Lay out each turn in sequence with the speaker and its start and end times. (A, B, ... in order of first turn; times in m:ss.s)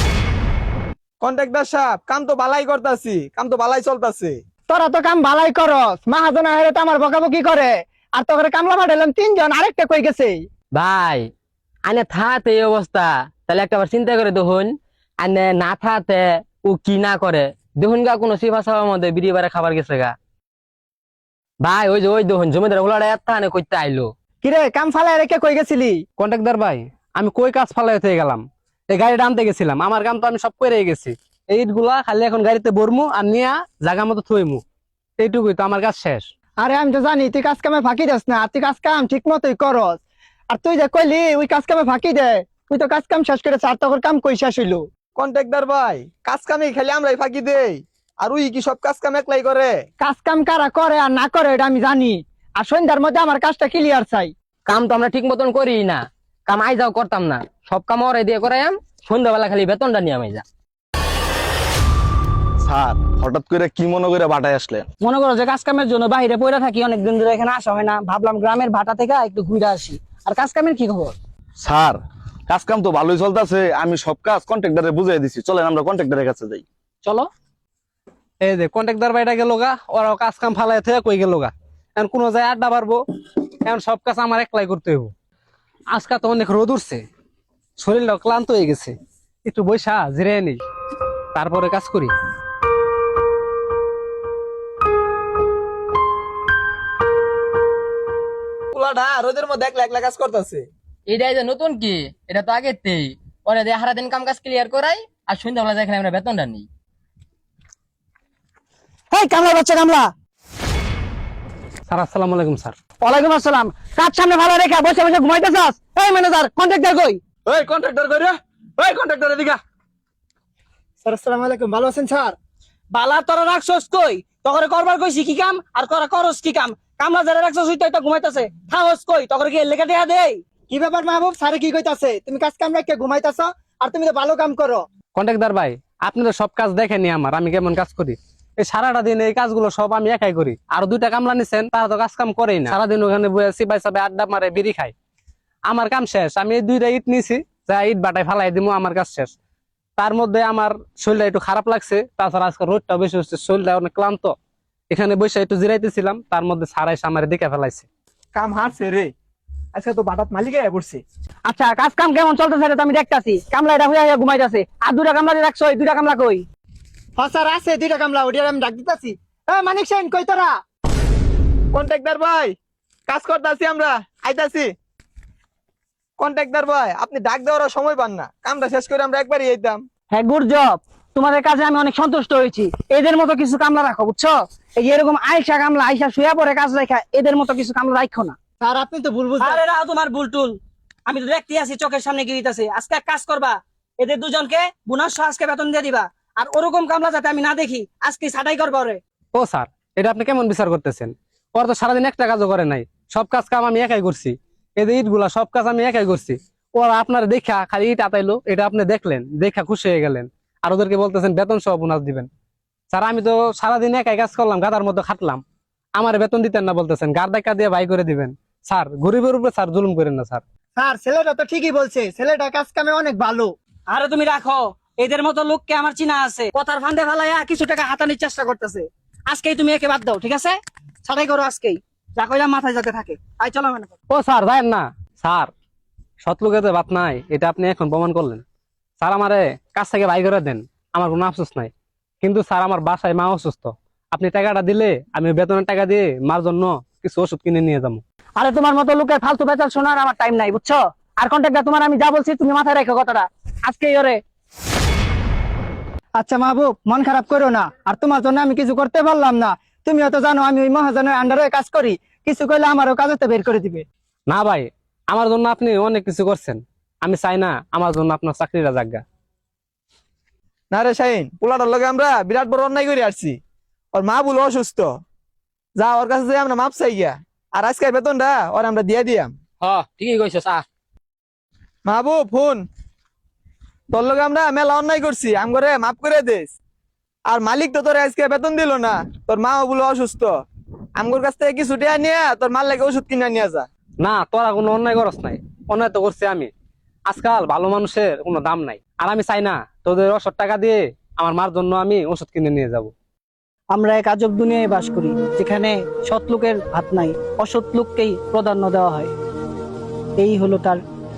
0:01.2-0:04.4 A
0:04.7-0:10.4 B
0:10.7-0:11.3 C
0:11.9-0:20.2 C
0:21.6-0:24.1 C
0:24.4-0:26.0 B
0:26.2-0:34.6 D
0:35.2-0:36.3 D
0:36.6-0:40.0 B
0:40.5-0:44.8 B
0:45.2-0:49.8 A
0:50.0-0:54.3 B
0:54.7-1:00.4 C
1:02.6-1:04.8 E
1:05.0-1:11.2 F
1:11.6-1:16.6 E
1:18.4-1:23.0 D
1:23.6-1:25.1 D
1:25.9-1:27.0 D
1:27.8-1:28.9 D
1:29.4-1:30.6 D
1:31.4-1:32.1 D
1:38.7-1:40.7 A
1:41.1-1:46.7 C
1:49.1-1:50.1 F
1:51.9-1:52.8 D
1:53.0-1:57.2 F
1:57.5-1:59.6 E
2:01.0-2:02.3 B
2:02.9-2:10.4 F
2:10.7-2:14.8 B
2:15.2-2:24.9 D
2:25.7-2:29.3 D
2:30.0-2:34.3 D
2:34.9-2:37.8 D
2:38.4-2:39.1 A
2:39.7-2:41.0 A
2:41.5-2:46.4 F
2:47.2-2:50.5 B
2:51.7-2:52.6 A
2:53.1-2:54.7 A
2:56.2-2:59.8 A
3:00.1-3:08.4 F
3:08.6-3:09.6 B
3:09.4-3:19.0 F
3:19.3-3:32.3 D
3:32.9-3:35.4 D
3:36.0-3:40.4 D
3:40.8-3:43.5 B
3:43.9-3:53.9 F
3:54.1-3:55.5 D
3:56.2-3:58.4 D
3:59.0-4:01.7 D
4:02.2-4:08.0 D
4:08.4-4:14.2 F
4:16.2-4:23.9 B
4:24.3-4:29.0 D
4:30.7-4:33.4 A
4:33.9-4:34.9 A
4:35.8-4:39.3 A
4:39.6-4:40.6 C
4:41.9-4:42.6 A
4:43.9-4:46.5 A
4:47.3-4:50.4 A
4:51.0-4:53.7 A
4:54.0-4:56.5 D
4:57.1-5:02.9 D
5:03.7-5:09.1 G
5:10.2-5:10.8 G